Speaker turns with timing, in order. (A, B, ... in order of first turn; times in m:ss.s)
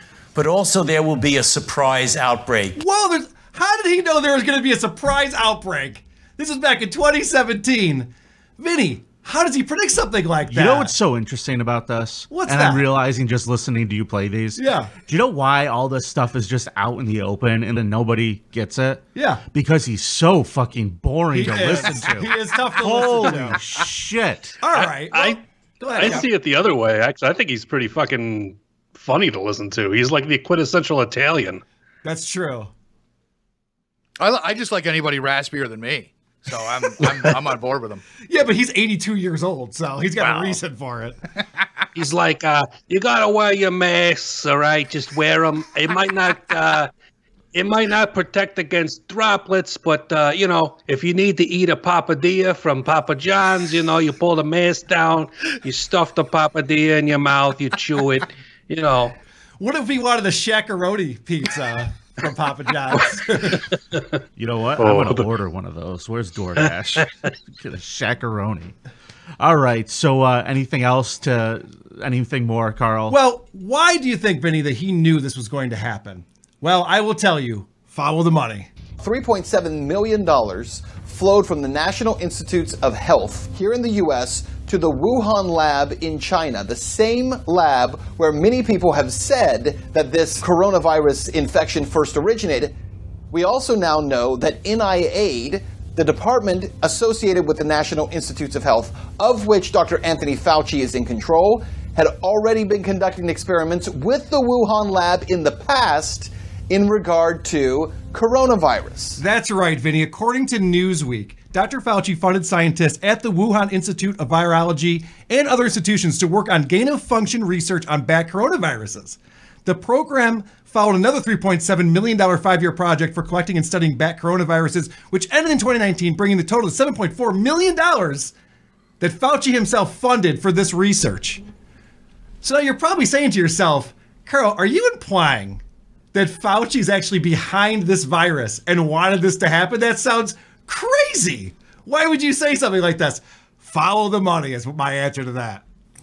0:00.3-0:02.8 A
0:02.8-0:10.9 B
0:10.5-0:24.6 C
0:12.3-0:12.9 B
0:14.6-0:14.9 B
0:19.1-0:19.4 B
0:21.3-0:23.6 B
0:24.6-0:26.3 B
0:24.7-0:25.4 D
0:25.9-0:31.6 D
0:32.0-0:32.7 B
0:34.2-0:38.0 E
0:38.3-0:41.2 B
0:40.2-0:40.6 E
0:41.9-0:46.9 D
0:47.5-0:59.2 D
0:59.6-1:03.6 B
1:04.4-1:08.7 C
1:04.8-1:05.3 D
1:09.4-1:13.2 C
1:13.1-1:18.7 B
1:19.0-1:32.7 F
1:33.3-1:49.2 F
1:49.2-2:08.3 B
2:09.0-2:11.4 B
2:12.4-2:15.6 B
2:16.1-2:25.6 B